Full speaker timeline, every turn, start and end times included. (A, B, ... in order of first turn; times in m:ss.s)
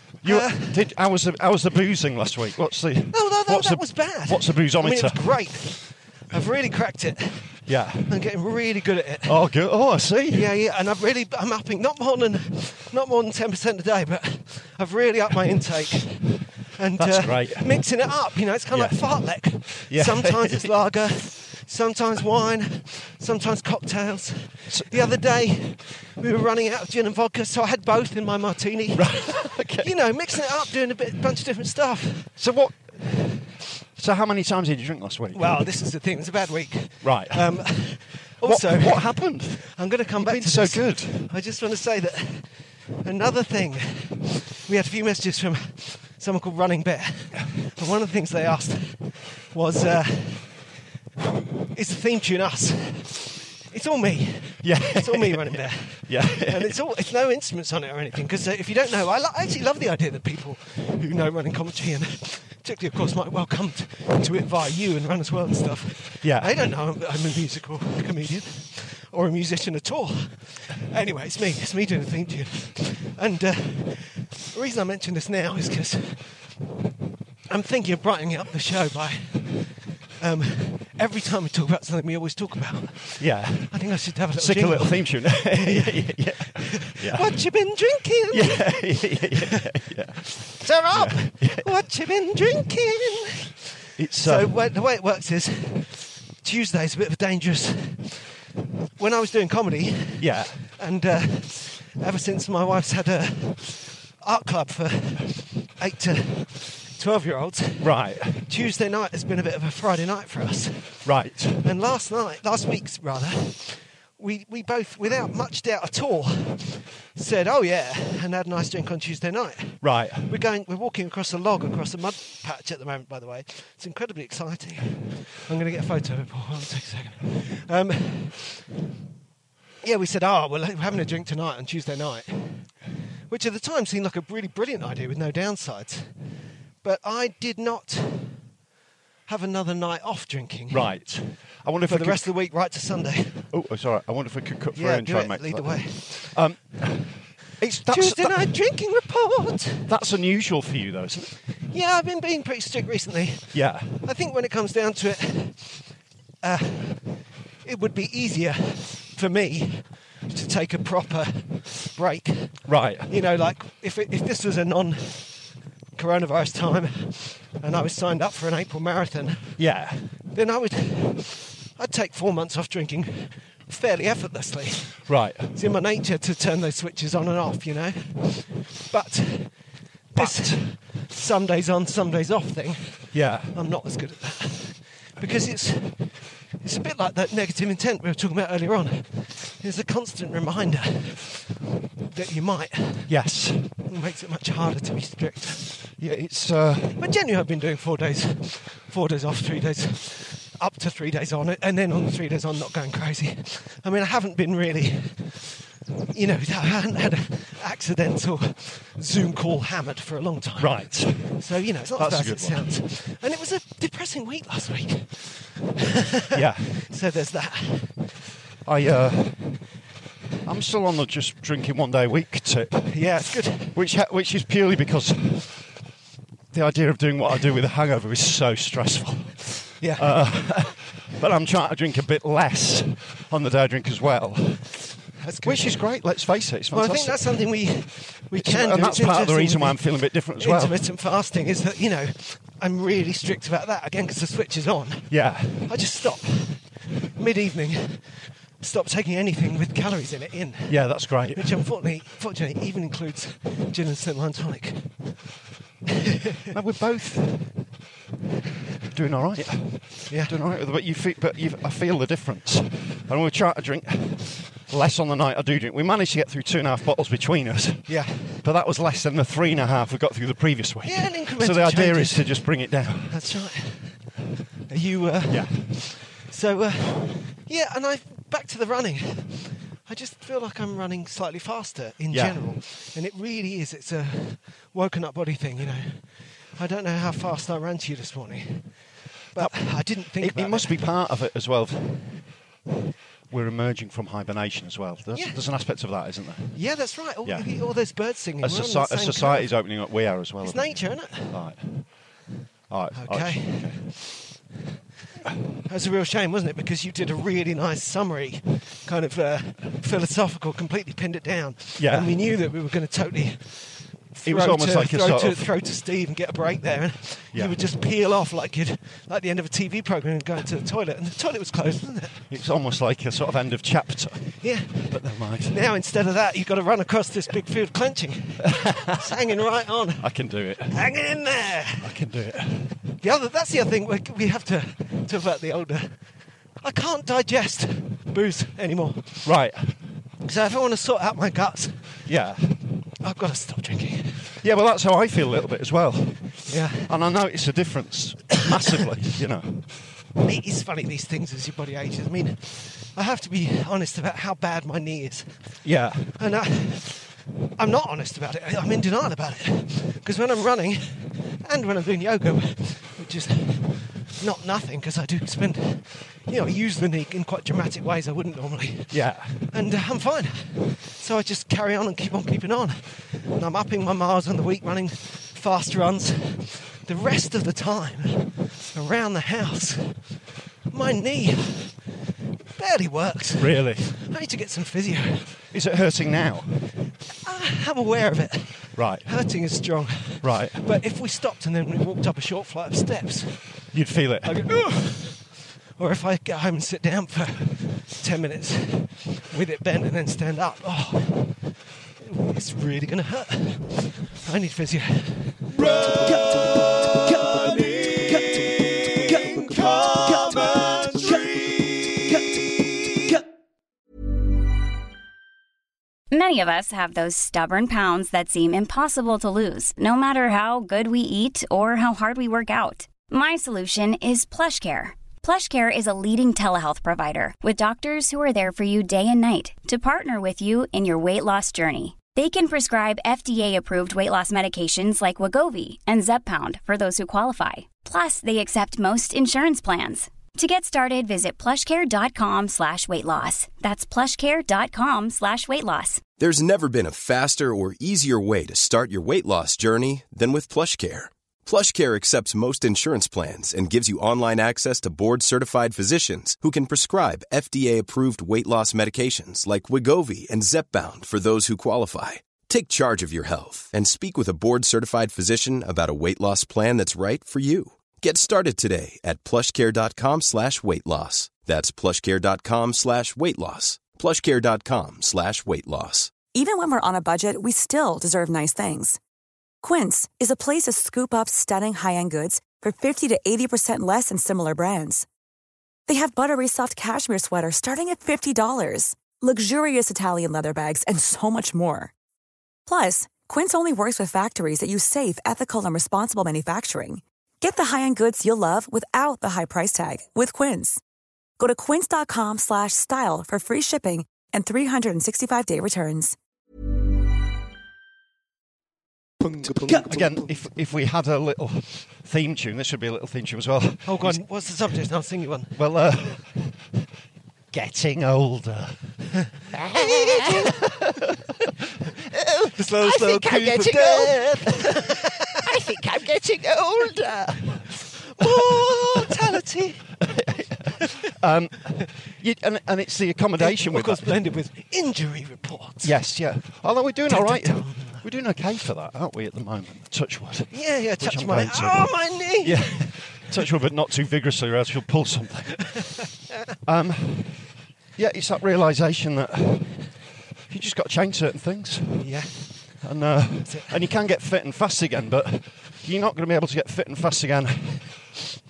0:00.2-0:05.6 A
0:00.2-0:00.9 B
0:03.1-0:09.4 B
0:07.7-0:08.1 A
0:09.2-0:10.5 A
0:10.3-0:32.4 B
0:17.0-0:17.8 A
0:18.7-0:20.7 A
0:24.7-0:25.0 A
0:28.9-0:30.4 A
0:32.4-0:35.6 A
0:35.3-0:50.7 B
0:37.0-0:41.3 A
0:51.7-1:16.4 B
0:54.6-0:56.8 A
1:06.2-1:06.5 A
1:17.5-1:29.6 B
1:23.2-1:27.4 A
1:28.3-1:31.7 A
1:30.6-1:33.6 B
1:34.0-1:34.5 A
1:34.2-1:38.3 B
1:39.0-1:51.1 B
1:40.2-1:40.6 A
1:47.8-1:48.4 A
1:51.0-1:51.7 A
1:51.6-2:08.6 B
1:59.8-2:00.3 A
2:09.8-2:12.7 B
2:13.3-2:16.2 B
2:16.8-2:18.4 B
2:19.3-2:20.9 B
2:20.7-2:22.3 A
2:21.9-2:23.5 B
2:23.5-2:28.5 A
2:24.7-2:26.4 B
2:27.9-2:29.9 B
2:29.9-2:31.3 A
2:31.7-2:35.9 B
2:33.5-2:34.0 A
2:36.4-2:45.4 B
2:42.6-2:43.1 A
2:45.9-2:49.6 B
2:49.6-2:50.1 A
2:50.3-3:11.5 B
2:55.0-2:55.5 A
3:00.1-3:00.6 A
3:03.1-3:03.5 A
3:12.1-3:13.1 B
3:13.1-3:13.7 A
3:13.9-3:15.8 B
3:16.0-3:17.0 A
3:17.0-3:25.5 B
3:26.1-3:38.0 B
3:30.6-3:31.4 A
3:32.0-3:32.7 A
3:36.3-3:36.7 A
3:38.6-3:39.6 A
3:40.4-3:43.0 A
3:42.9-3:43.8 B
3:43.7-3:45.7 A
3:46.5-3:54.8 A
3:49.8-3:50.4 B
3:55.2-3:55.8 B
3:55.4-3:57.4 A
3:56.7-4:15.0 B
3:58.4-4:00.8 A
4:05.1-4:05.7 A
4:10.7-4:11.5 A
4:15.9-4:16.4 B
4:16.5-4:17.6 A
4:18.9-4:33.2 A
4:20.1-4:20.4 B
4:27.9-4:28.4 B
4:30.8-4:32.5 B
4:33.0-4:34.0 B
4:34.7-4:48.7 B
4:35.3-4:35.6 A
4:42.1-4:42.5 A
4:49.3-4:50.8 B
4:49.4-4:52.2 A
4:53.3-4:56.6 A
4:55.1-4:55.4 B
4:56.5-4:59.5 B
4:57.2-4:57.7 A
4:58.4-5:01.9 A
5:00.4-5:01.4 B
5:02.7-5:03.9 A
5:03.0-5:04.0 B
5:05.6-5:22.2 B
5:11.8-5:12.1 A
5:14.2-5:15.5 A
5:22.3-5:25.6 A
5:24.4-5:30.1 B
5:28.4-5:29.1 A
5:30.0-5:30.8 A
5:30.7-5:31.9 B
5:31.8-5:32.7 A
5:33.0-5:35.9 B
5:36.6-5:39.3 B
5:39.2-5:39.8 A
5:40.2-5:42.0 B
5:42.1-5:42.6 A
5:43.0-5:44.2 B
5:44.4-5:49.9 A
5:46.5-5:46.9 B
5:50.2-5:55.4 B
5:55.6-5:56.1 A
5:56.2-6:20.0 B
6:08.9-6:09.4 A
6:20.7-6:21.8 B
6:22.6-6:25.4 B
6:23.4-6:23.9 A
6:25.5-6:26.6 A
6:27.2-6:33.6 B
6:28.8-6:29.1 A
6:30.2-6:30.6 A
6:33.7-6:34.5 A
6:34.2-6:41.5 B
6:42.0-6:46.4 B
6:47.0-6:52.4 B
6:56.1-7:26.0 C
7:26.2-7:56.1 D
7:56.3-7:59.0 E
7:59.6-8:05.0 E
8:05.9-8:11.9 E
8:12.7-8:20.8 E
8:21.4-8:26.2 E
8:29.5-8:34.2 A
8:33.8-8:35.6 B
8:35.6-8:36.5 A
8:37.5-8:38.8 A
8:39.5-8:41.4 A
8:39.8-8:40.5 B
8:42.0-8:49.2 A
8:42.6-8:45.4 B
8:48.1-8:49.9 B
8:50.0-8:54.2 A
8:53.4-8:55.9 B
8:55.8-9:05.8 A
8:57.1-8:58.1 B
9:00.5-9:02.9 B
9:06.6-9:07.4 A
9:08.0-9:09.8 A
9:10.5-9:12.1 A
9:12.0-9:12.5 B
9:12.8-9:18.0 A
9:13.4-9:13.8 B